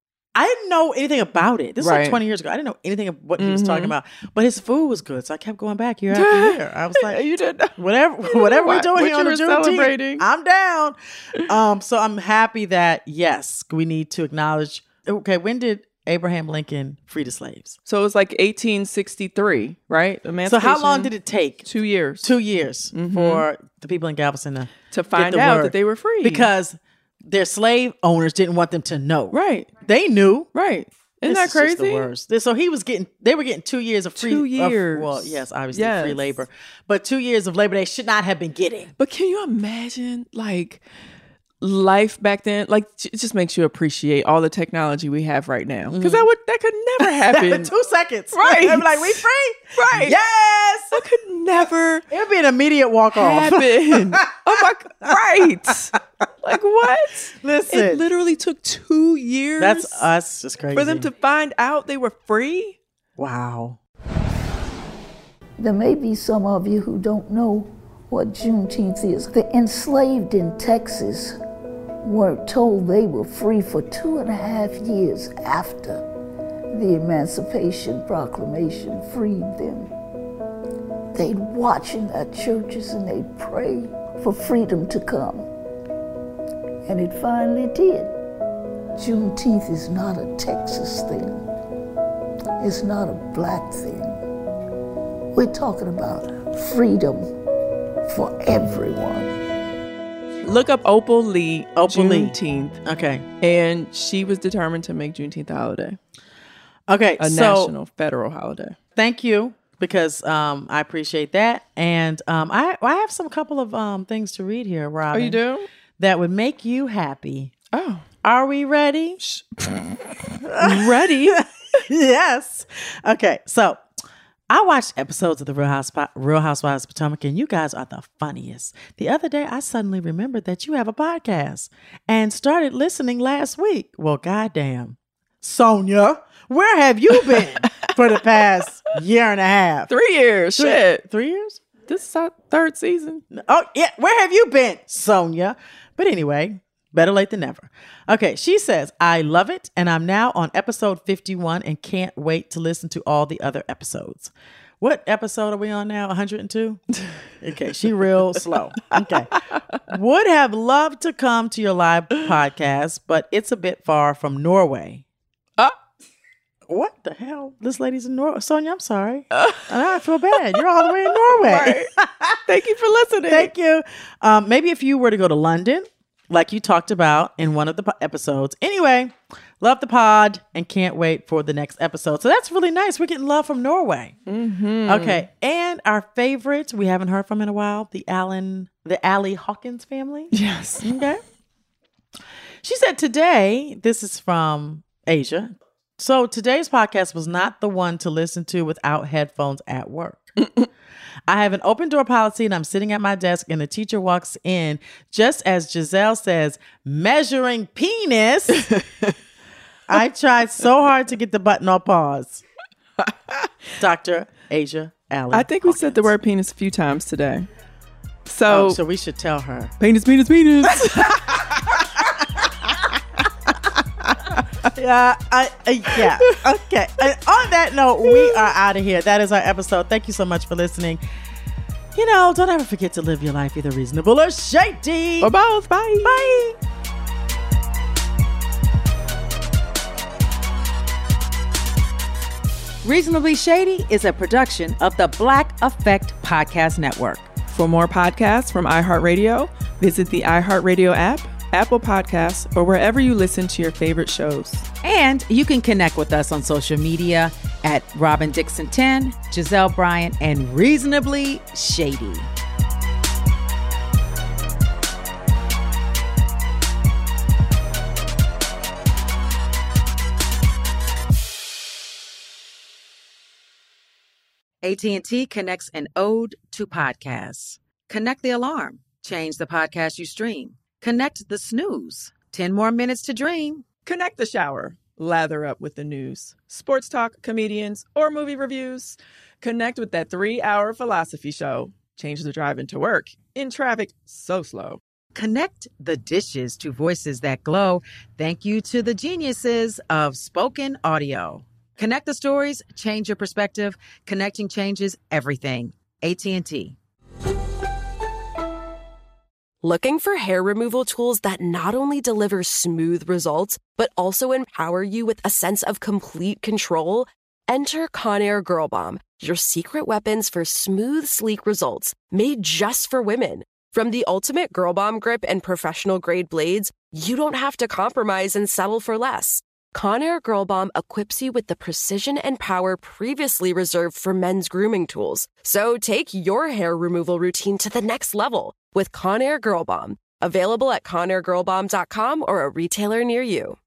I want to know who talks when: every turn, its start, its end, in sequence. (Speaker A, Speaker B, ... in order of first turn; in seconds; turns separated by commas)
Speaker A: 0.3-7.2, Speaker B: 1.8-2.2, Speaker B: 3.4-3.9, Speaker B: 6.1-10.3, Speaker A: 7.8-17.8, Speaker B: 17.9-21.1, Speaker A: 20.4-21.7, Speaker B: 21.6-22.3, Speaker A: 22.2-30.5, Speaker B: 22.9-23.4, Speaker B: 24.9-26.5, Speaker B: 29.3-29.7, Speaker B: 30.5-32.1, Speaker A: 31.2-38.9, Speaker B: 34.2-36.3, Speaker B: 39.0-40.8, Speaker B: 41.6-47.7, Speaker A: 45.9-46.3, Speaker A: 47.0-51.0, Speaker B: 48.3-50.2, Speaker B: 50.9-52.0, Speaker A: 52.1-55.1, Speaker B: 53.1-60.1, Speaker A: 57.4-58.0, Speaker A: 59.6-61.1, Speaker B: 60.7-62.8, Speaker A: 63.2-63.8, Speaker C: 65.6-71.4, Speaker C: 72.0-76.0, Speaker C: 76.7-79.9, Speaker C: 81.1-85.5, Speaker C: 86.9-88.1, Speaker C: 89.0-91.4, Speaker C: 92.6-94.2, Speaker C: 95.3-97.3, Speaker C: 98.0-99.3, Speaker B: 100.4-102.8, Speaker A: 101.8-103.2, Speaker B: 103.4-106.0, Speaker A: 106.9-107.7, Speaker B: 107.2-108.8, Speaker A: 109.0-115.4, Speaker B: 115.1-115.7, Speaker A: 116.0-117.5, Speaker B: 117.7-118.0, Speaker A: 118.2-119.2, Speaker B: 119.2-121.4, Speaker A: 120.5-123.8, Speaker A: 124.5-139.9, Speaker B: 137.3-137.9, Speaker B: 139.9-141.0, Speaker A: 140.5-141.6, Speaker B: 141.9-143.2, Speaker A: 143.3-156.8, Speaker A: 157.4-159.3, Speaker A: 159.9-165.0, Speaker A: 166.7-172.4, Speaker B: 169.3-169.7, Speaker B: 170.5-171.9, Speaker B: 172.5-173.5, Speaker A: 173.3-184.2, Speaker B: 184.3-185.2, Speaker A: 184.8-191.2, Speaker B: 190.3-190.9, Speaker A: 192.6-200.3, Speaker A: 201.3-208.7, Speaker B: 208.6-209.1, Speaker A: 209.9-212.4, Speaker A: 213.8-216.1, Speaker B: 215.3-217.5, Speaker B: 218.2-218.8, Speaker A: 218.5-219.7, Speaker B: 219.8-221.7, Speaker A: 220.7-221.8, Speaker A: 224.7-231.0, Speaker B: 228.2-228.4, Speaker A: 231.9-235.3, Speaker B: 235.2-236.4, Speaker A: 236.0-236.6, Speaker D: 242.8-247.2, Speaker B: 247.5-254.7, Speaker D: 254.8-262.3, Speaker D: 274.6-283.6, Speaker B: 283.8-294.8, Speaker D: 295.1-306.8, Speaker E: 309.6-343.6